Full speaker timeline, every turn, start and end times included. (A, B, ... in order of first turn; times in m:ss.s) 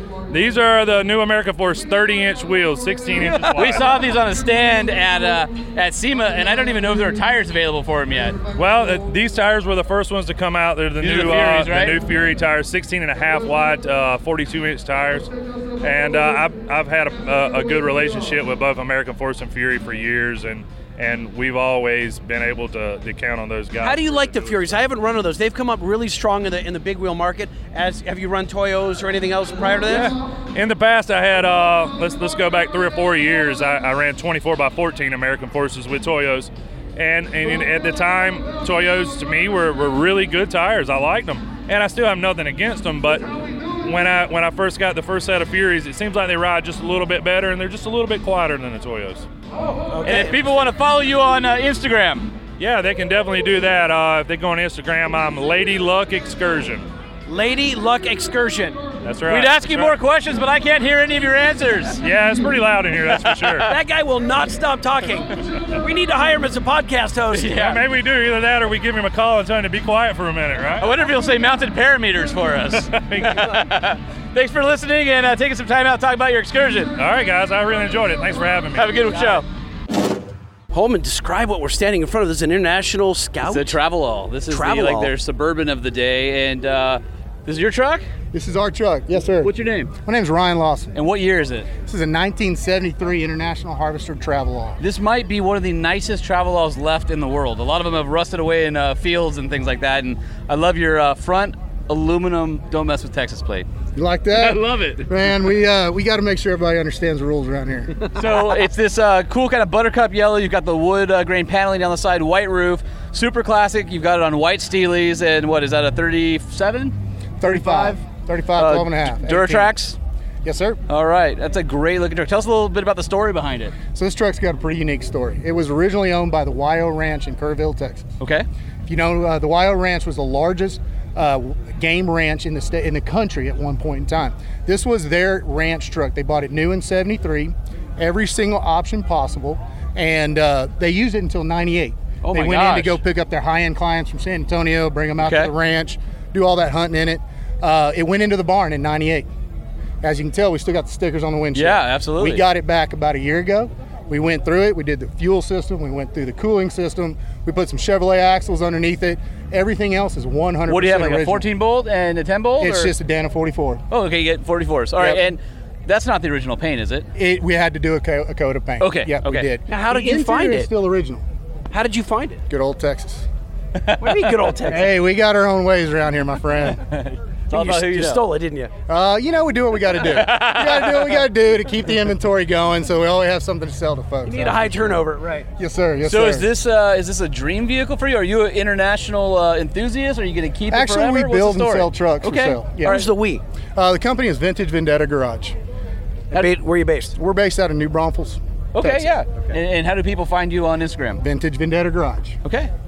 0:00.3-0:04.0 A
0:03.2-0:08.4 B
0:08.5-0:15.3 A
0:11.0-0:12.0 B
0:15.8-0:24.8 A
0:23.8-0:30.1 C
0:29.9-0:43.3 A
0:43.8-0:49.3 A
0:49.9-0:50.5 C
0:50.0-0:52.3 B
0:52.6-0:56.9 A
0:57.3-0:58.8 C
0:59.0-1:00.0 A
0:59.2-1:02.0 B
1:02.0-1:03.7 A
1:03.1-1:03.7 B
1:03.6-1:07.7 C
1:07.3-1:07.8 B
1:07.5-1:10.9 A
1:10.8-1:16.9 B
1:12.7-1:13.5 A
1:17.0-1:19.0 A
1:18.7-1:19.4 B
1:20.7-1:23.8 C
1:23.4-1:28.0 B
1:24.5-1:25.1 C
1:28.3-1:29.5 D
1:29.4-1:29.9 B
1:30.0-1:31.0 D
1:30.9-1:31.7 B
1:31.8-1:34.8 D
1:34.8-1:43.7 B
1:43.9-1:48.0 D
1:44.3-1:45.3 B
1:48.0-1:56.9 B
1:57.4-1:59.8 D
1:57.5-1:58.0 B
1:58.6-2:00.0 B
2:00.4-2:00.8 D
2:00.9-2:03.8 B
2:03.9-2:08.1 D
2:08.2-2:08.4 B
2:08.9-2:29.3 D
2:22.2-2:23.0 B
2:25.2-2:25.5 B
2:30.0-2:41.5 D
2:31.5-2:32.4 B
2:40.7-2:42.9 B
2:42.6-2:43.8 D
2:43.9-2:47.1 B
2:45.0-2:45.2 D
2:47.1-2:51.2 D
2:48.8-2:49.5 B
2:49.7-2:50.7 C
2:51.7-2:52.4 C
2:52.5-2:53.3 D
2:53.8-2:54.4 B
2:54.0-2:54.9 C
2:54.7-2:56.8 D
2:56.8-2:58.2 B
2:57.5-2:58.7 C
2:58.9-3:05.0 D
2:59.9-3:01.3 B
3:04.2-3:05.4 C
3:05.6-3:06.5 D
3:06.0-3:13.0 B
3:10.7-3:13.0 D
3:12.8-3:13.4 C
3:13.8-3:15.6 D
3:16.3-3:17.1 C
3:17.2-3:19.1 D
3:18.7-3:21.2 B
3:21.2-3:22.4 D
3:22.4-3:22.7 B